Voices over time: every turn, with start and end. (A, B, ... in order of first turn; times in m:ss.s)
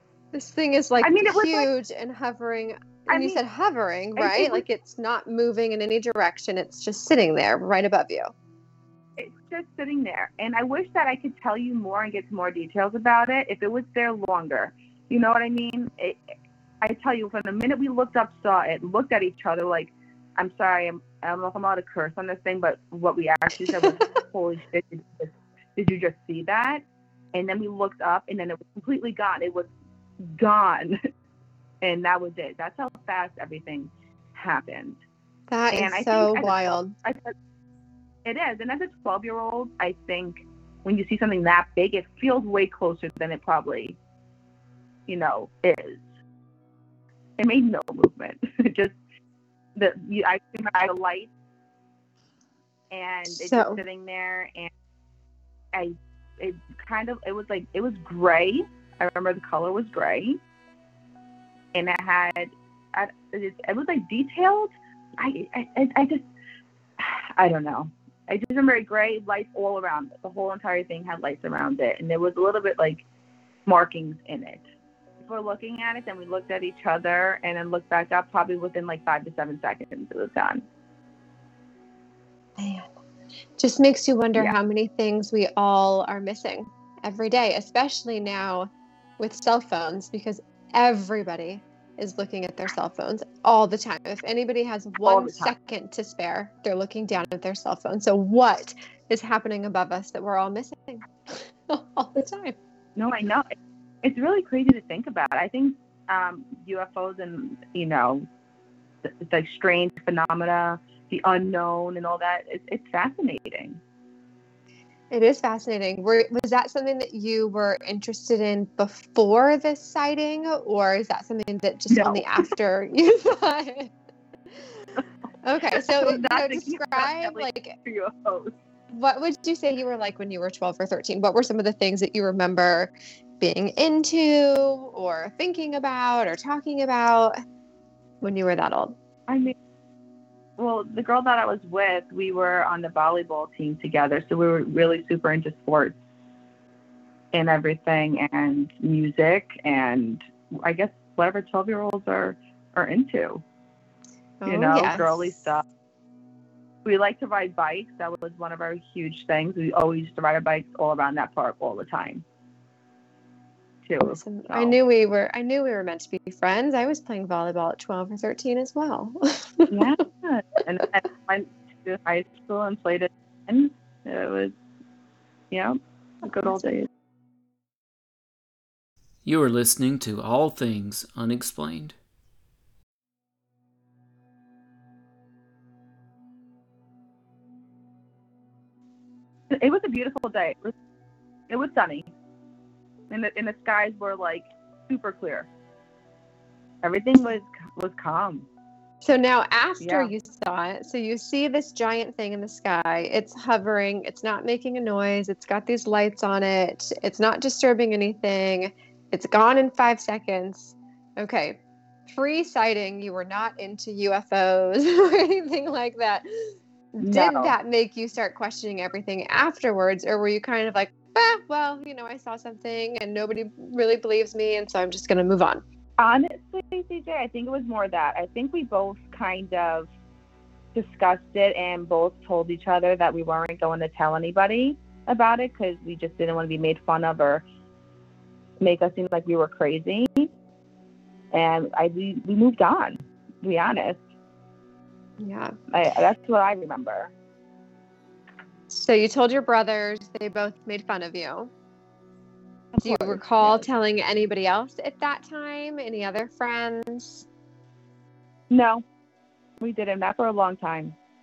0:00.3-0:08.3 A
0:01.0-0:01.7 B
0:03.1-0:03.4 B
0:04.2-0:04.6 B
0:09.2-0:16.2 B
0:16.8-0:31.0 B
0:31.8-0:35.0 B
0:35.5-0:36.9 A
0:35.7-0:37.3 B
0:38.2-0:44.0 B
0:45.1-0:46.0 B
0:47.4-0:49.0 B
0:49.8-0:51.3 B
0:52.9-0:54.7 B
0:53.3-0:53.8 A
0:55.7-1:00.4 B
1:01.7-1:06.3 B
1:07.0-1:13.0 B
1:13.6-1:14.6 B
1:15.2-1:20.6 B
1:22.6-1:22.9 A
1:23.6-1:42.6 A
1:35.0-1:35.5 B
1:43.0-1:48.3 B
1:49.0-1:53.8 B
1:55.1-2:03.9 A
2:01.9-2:02.5 B
2:05.4-2:07.7 A
2:05.7-2:08.5 B
2:08.9-2:17.4 A
2:18.2-2:19.0 A
2:19.3-2:19.6 B
2:20.6-2:26.0 B
2:27.3-2:33.4 B
2:34.4-2:35.5 A
2:34.4-2:35.6 B
2:36.8-2:42.2 B
2:43.8-2:44.8 B
2:44.0-2:49.8 A
2:49.7-2:54.5 B
2:55.5-2:56.9 B
2:59.2-3:02.0 C
3:09.5-3:10.7 B
3:11.5-3:12.1 B
3:13.1-3:15.5 B
3:16.8-3:18.5 B
3:19.0-3:45.6 A
3:19.8-3:20.1 B
3:37.0-3:37.5 B
3:46.0-3:49.9 B
3:50.7-3:57.4 B
3:58.6-4:00.3 B
4:01.3-4:04.0 B
4:05.2-4:05.5 A
4:05.7-4:07.1 B
4:08.7-4:11.5 A
4:12.7-4:13.7 B
4:12.8-4:17.2 A
4:18.5-4:18.8 B
4:19.6-4:21.0 B